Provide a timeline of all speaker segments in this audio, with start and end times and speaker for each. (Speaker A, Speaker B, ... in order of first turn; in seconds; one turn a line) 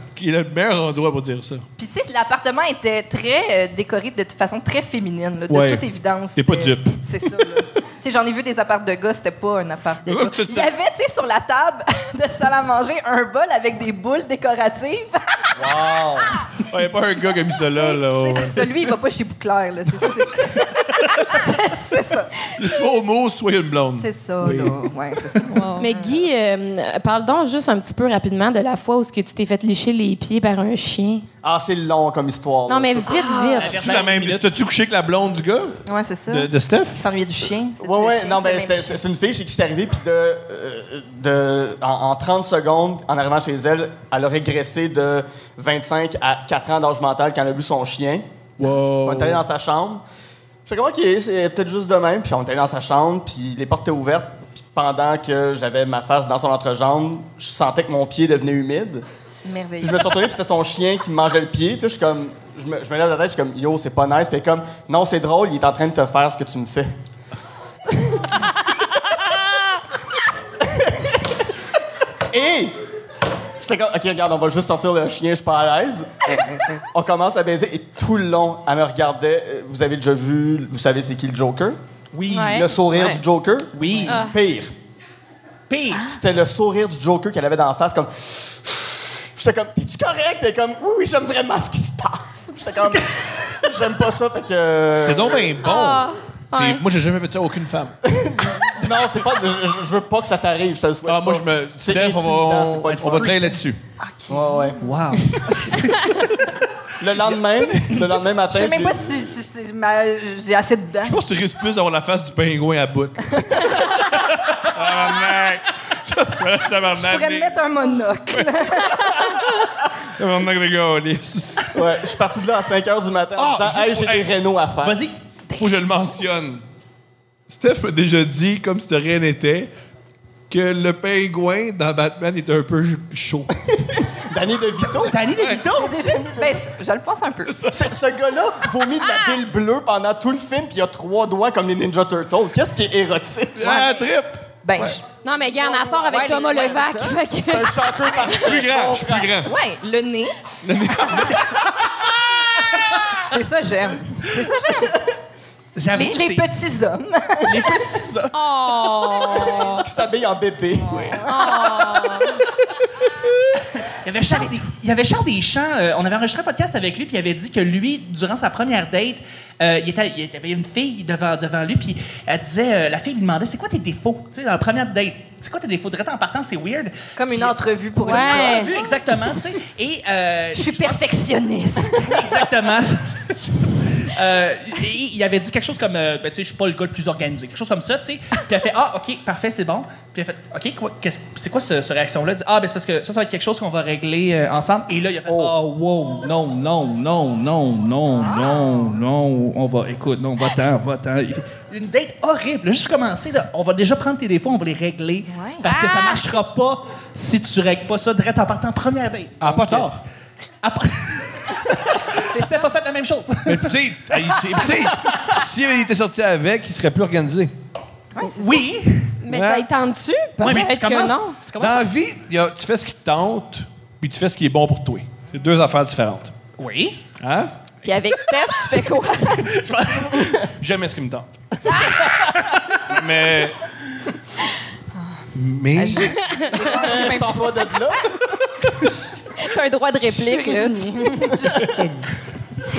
Speaker A: 0.2-1.6
Speaker B: 1.8-15.6
Speaker A: 5.5-5.8
Speaker A: 6.4-7.5
Speaker A: 10.1-10.7
Speaker C: 15.6-16.3
Speaker A: 16.1-18.7
Speaker B: 17.7-22.9
Speaker A: 21.1-21.4
Speaker A: 22.6-24.8
Speaker B: 24.0-26.2
Speaker D: 25.8-31.2
Speaker C: 31.4-33.2
Speaker D: 32.7-33.8
Speaker B: 33.1-33.8
Speaker E: 33.6-34.5
Speaker A: 33.7-37.1
Speaker B: 35.9-39.0
Speaker C: 37.8-48.2
Speaker A: 48.6-49.4
Speaker C: 49.0-50.0
Speaker C: 50.7-59.0
Speaker B: 59.5-60.3
Speaker C: 59.8-66.9
Speaker C: 67.9-68.3
Speaker C: 70.6-71.2
Speaker C: 72.3-72.7
Speaker C: 73.6-81.8
Speaker E: 82.1-82.8
Speaker D: 82.3-82.7
Speaker C: 82.4-84.7
Speaker E: 83.8-84.2
Speaker D: 84.1-84.4
Speaker E: 85.7-86.1
Speaker C: 86.0-95.6
Speaker A: 95.0-98.0
Speaker D: 95.6-96.8
Speaker C: 98.1-103.5
Speaker A: 101.0-103.8
Speaker E: 103.0-103.3
Speaker B: 104.0-104.7
Speaker C: 104.3-104.8
Speaker E: 104.8-106.1
Speaker B: 105.4-105.8
Speaker C: 107.0-109.0
Speaker B: 108.5-111.2
Speaker A: 111.0-117.6
Speaker B: 116.9-119.2
Speaker A: 118.3-121.8
Speaker C: 121.7-125.0
Speaker A: 123.4-124.3
Speaker E: 124.8-125.2
Speaker A: 125.5-126.6
Speaker A: 127.5-129.7
Speaker A: 130.5-133.5
Speaker C: 133.6-135.2
Speaker E: 135.1-136.1
Speaker A: 135.3-135.6
Speaker B: 135.7-137.7
Speaker C: 137.7-143.8
Speaker A: 143.6-145.0
Speaker B: 144.6-145.0
Speaker D: 145.2-148.4
Speaker B: 145.6-147.2
Speaker F: 145.9-146.9
Speaker C: 147.4-149.4
Speaker A: 148.3-149.5
Speaker B: 149.5-150.4
Speaker A: 150.6-152.0
Speaker B: 153.2-155.0
Speaker E: 155.8-156.5
Speaker B: 155.9-157.7
Speaker E: 157.5-158.3
Speaker D: 158.3-159.8
Speaker C: 159.2-162.4
Speaker B: 160.8-161.7
Speaker D: 161.2-162.4
Speaker E: 163.8-181.1
Speaker B: 177.2-179.1
Speaker D: 178.0-178.7
Speaker B: 180.5-182.5
Speaker E: 181.9-209.9
Speaker B: 198.2-198.9
Speaker B: 205.3-205.7
Speaker D: 205.7-206.3
Speaker A: 209.4-210.0
Speaker E: 210.6-213.7
Speaker A: 213.5-217.5
Speaker B: 218.2-218.7
Speaker E: 218.2-219.2
Speaker D: 219.2-221.4
Speaker A: 219.3-219.7
Speaker E: 220.4-221.9
Speaker A: 221.6-226.3
Speaker E: 226.6-227.0
Speaker A: 227.2-227.5
Speaker F: 227.8-229.6
Speaker E: 229.3-230.4
Speaker A: 230.3-231.3
Speaker A: 232.8-233.6
Speaker B: 234.9-237.7
Speaker A: 235.3-236.2
Speaker D: 236.2-236.5
Speaker C: 236.5-238.5
Speaker E: 236.8-237.1
Speaker F: 239.4-241.2
Speaker B: 240.1-241.7
Speaker A: 241.6-242.1